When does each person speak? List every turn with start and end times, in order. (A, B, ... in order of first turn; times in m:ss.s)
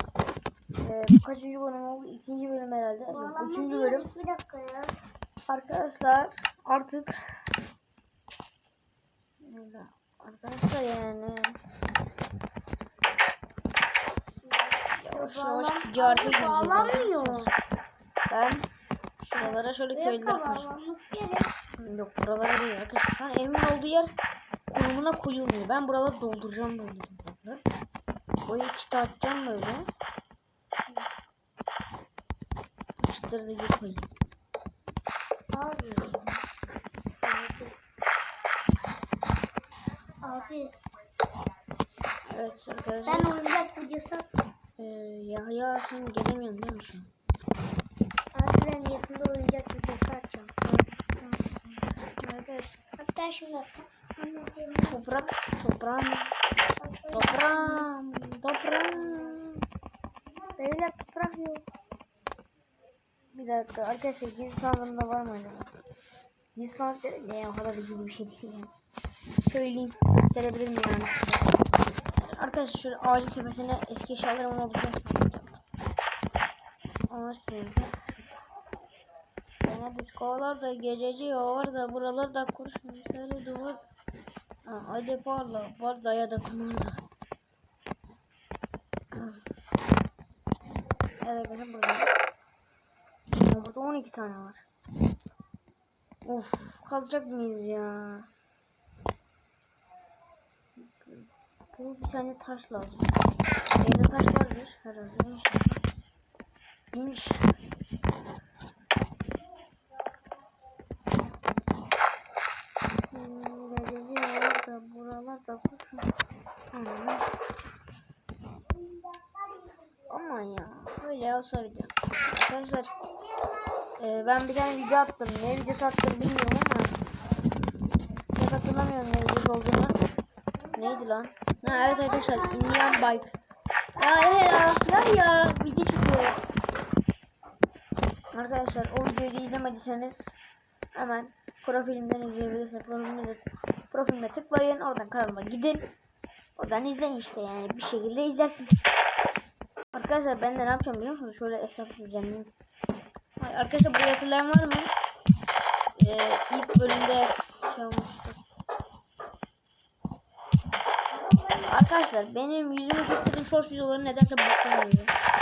0:00.8-0:04.1 A
0:03.1-0:04.9 B
0:05.5-0:07.1 A
0:09.4-0:11.6 A
0:14.5-0:17.5 B
0:15.0-0:17.5 A
0:18.3-0:18.7 A
0:19.3-0:20.7 A
0:19.3-0:21.5 B
0:21.8-0:24.1 A
0:24.7-0:27.6 A
0:28.5-0:29.9 A
0:33.0-0:34.1 A
0:35.5-0:36.4 B
0:37.2-0:37.7 B
0:40.2-0:40.7 B
0:42.3-0:43.3 A
0:43.0-0:44.3 B
0:44.8-0:47.1 A
0:48.3-0:50.5 B
0:50.6-0:52.8 A
0:53.0-0:55.0 B
0:54.9-0:56.3 A
0:56.8-0:57.9 B
0:57.1-0:59.6 A
1:00.6-1:01.6 A
1:03.3-1:05.7 A
1:06.6-1:08.7 A
1:09.4-1:11.5 A
1:12.2-1:15.6 A
1:17.1-1:18.0 A
1:19.6-1:23.9 A
1:24.7-1:27.0 A
1:29.1-1:29.4 A
1:31.2-1:32.1 A
1:33.4-1:34.6 A
1:36.2-1:38.3 A
1:40.9-1:43.1 A
1:43.8-1:45.8 A
1:46.9-1:47.4 A
1:53.1-1:56.1 A
1:56.7-1:57.3 A
1:59.1-1:59.7 B
2:00.1-2:02.9 A
2:03.0-2:03.9 B
2:04.0-2:06.9 A
2:08.4-2:10.0 A
2:10.7-2:13.4 A
2:11.6-2:13.2 B
2:14.0-2:16.4 A
2:14.0-2:14.6 B
2:18.3-2:20.4 A
2:21.0-2:25.9 A
2:26.6-2:28.8 A
2:29.9-2:32.5 A
2:33.4-2:34.9 A
2:36.0-2:38.4 A
2:41.6-2:45.1 A